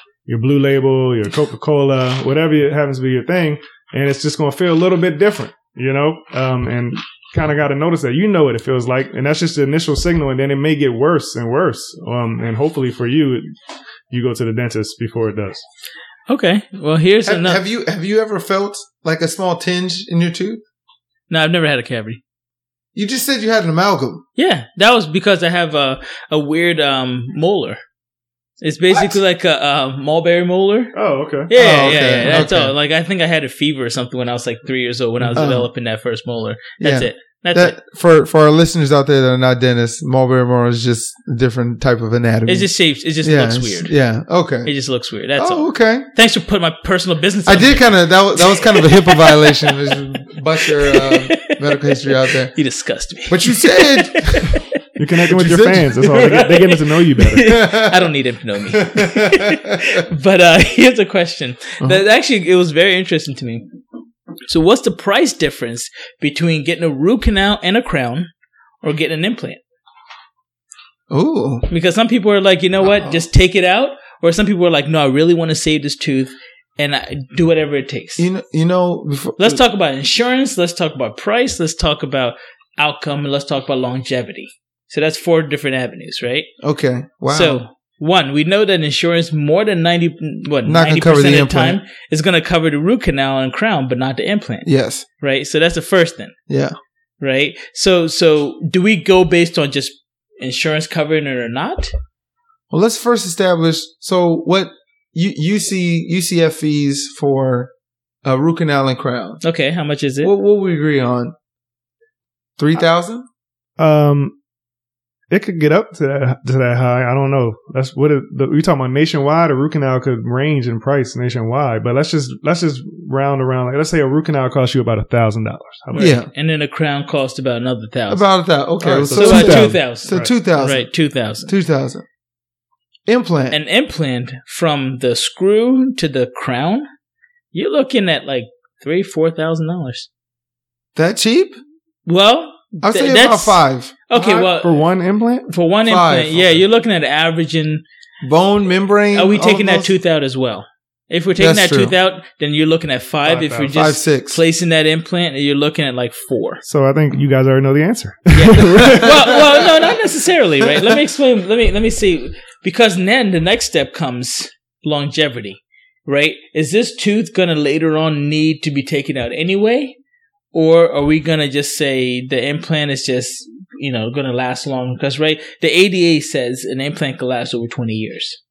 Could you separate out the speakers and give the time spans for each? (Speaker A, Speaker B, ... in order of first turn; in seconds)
Speaker A: 0.3-13.4, 14.1-15.6, 30.9-31.5, 55.0-57.5, 113.8-114.3, 115.3-126.2, 128.8-130.3, 144.6-145.5, 153.2-153.8, 156.7-159.1
Speaker B: 16.3-17.6, 21.3-22.2, 24.4-27.8, 28.6-30.9, 31.5-37.8, 42.5-43.9, 44.6-49.9, 50.6-54.6, 56.0-63.6, 64.5-68.3, 68.8-69.6, 71.7-78.3, 79.4-86.5, 87.3-94.7, 95.2-96.3, 97.2-101.9, 109.4-110.3, 125.9-128.2, 129.1-131.5, 133.5-136.9, 137.5-140.1, 142.1-144.7, 145.5-147.8, 149.1-156.6, 158.3-170.0, 170.5-178.4
Speaker C: 17.2-20.6, 22.9-24.2, 28.9-29.2, 31.5-32.7, 35.3-35.7, 36.8-42.7, 43.2-44.7, 45.4-46.1, 47.5-52.5, 53.3-54.6, 55.3-56.1, 57.4-58.1, 58.7-60.0, 71.1-71.7, 73.0-73.2, 78.2-79.6, 86.6-87.6, 90.7-91.8, 94.7-95.0, 96.5-96.8, 102.7-107.7, 108.2-109.4, 110.2-111.3, 112.6-113.3, 126.0-126.3, 128.1-130.9, 131.5-132.1, 133.1-133.6, 141.0-141.6, 142.8-144.5, 145.8-146.6, 148.2-149.9, 151.4-151.9, 153.7-154.4, 158.8-159.7